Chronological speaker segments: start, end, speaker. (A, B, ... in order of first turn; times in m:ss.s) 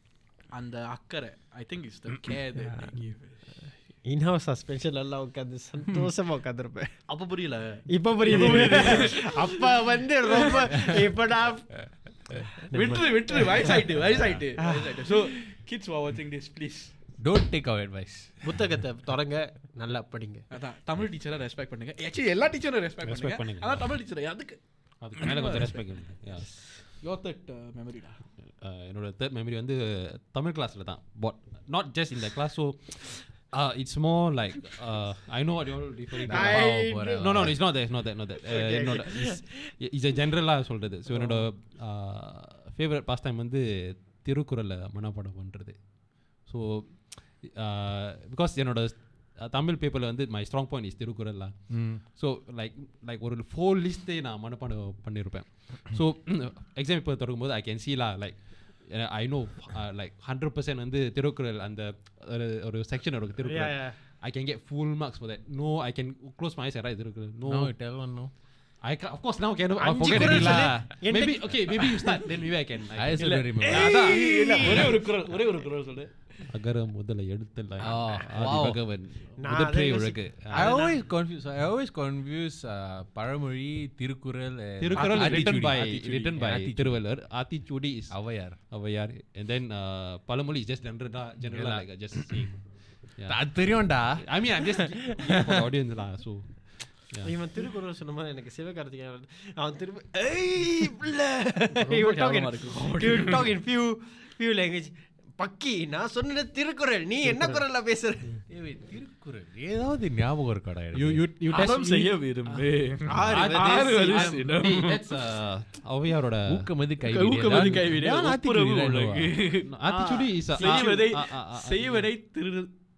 0:00.5-0:03.5 A
0:04.0-0:07.1 B
0:07.1-0:09.5 A
0:07.9-0:13.8 B
0:10.4-0:10.7 A
0:12.7-0:16.9 A
0:14.6-0:15.2 B
0:17.2-0:18.5 C
0:18.4-0:20.5 B
0:20.5-0:28.2 A
0:23.0-0:23.9 D
0:25.0-0:26.5 D
0:28.4-1:07.7 D
0:36.2-0:37.6 C
0:36.3-0:37.3 A
0:36.4-0:37.1 B
0:38.5-0:39.5 B
0:41.1-0:41.4 B
0:51.7-0:52.0 C
1:03.4-1:04.0 B
1:07.4-1:08.3 C
1:08.8-1:15.0 D
1:09.8-1:11.5 B
1:10.0-1:10.8 C
1:13.0-1:15.0 C
1:13.2-1:16.3 A
1:13.9-1:14.9 B
1:16.5-1:20.8 D
1:17.8-1:18.9 C
1:19.4-1:20.9 B
1:20.5-1:26.9 C
1:24.8-1:37.3 D
1:24.9-1:26.4 A
1:28.1-1:28.6 C
1:31.5-1:32.6 C
1:33.2-1:35.6 C
1:37.2-1:48.3 B
1:41.8-1:43.4 A
1:48.5-1:51.3 C
1:50.9-1:52.1 D
1:51.5-1:55.0 A
1:53.1-1:54.4 B
1:53.1-1:56.7 D
1:56.5-1:59.5 C
1:57.0-2:02.7 A
1:57.5-1:57.8 D
1:59.7-2:02.0 D